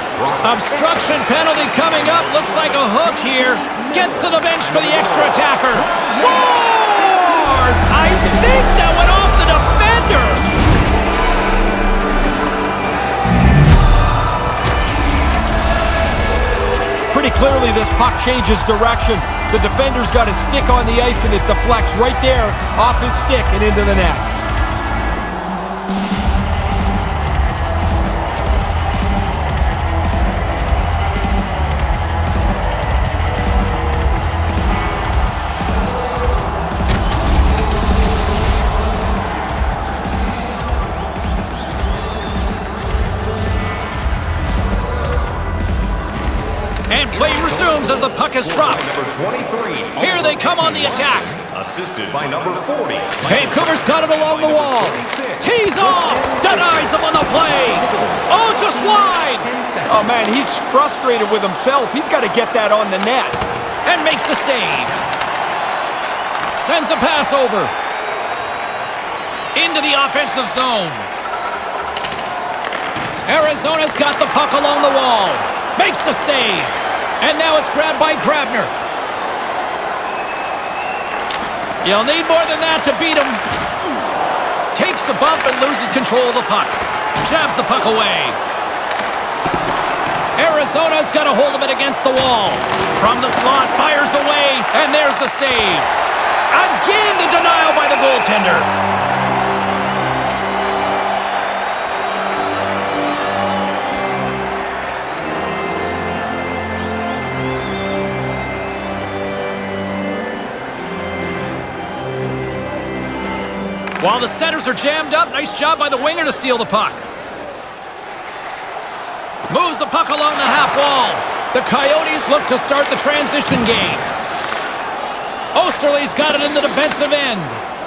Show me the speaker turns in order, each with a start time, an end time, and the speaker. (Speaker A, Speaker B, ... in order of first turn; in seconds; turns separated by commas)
Speaker A: 0.4-10.4, Speaker B: 3.7-6.0, Speaker C: 17.1-24.4, Speaker A: 46.9-48.9, Speaker B: 47.2-59.9, Speaker A: 50.0-51.4, Speaker A: 53.2-59.5, Speaker C: 59.9-63.4, Speaker A: 63.8-65.0, Speaker A: 66.5-67.7, Speaker A: 69.5-71.1, Speaker A: 73.2-78.7, Speaker A: 81.8-83.4, Speaker A: 84.7-88.4, Speaker A: 90.3-95.9, Speaker A: 96.5-98.7, Speaker A: 114.0-117.0, Speaker A: 119.5-124.1, Speaker A: 125.5-127.6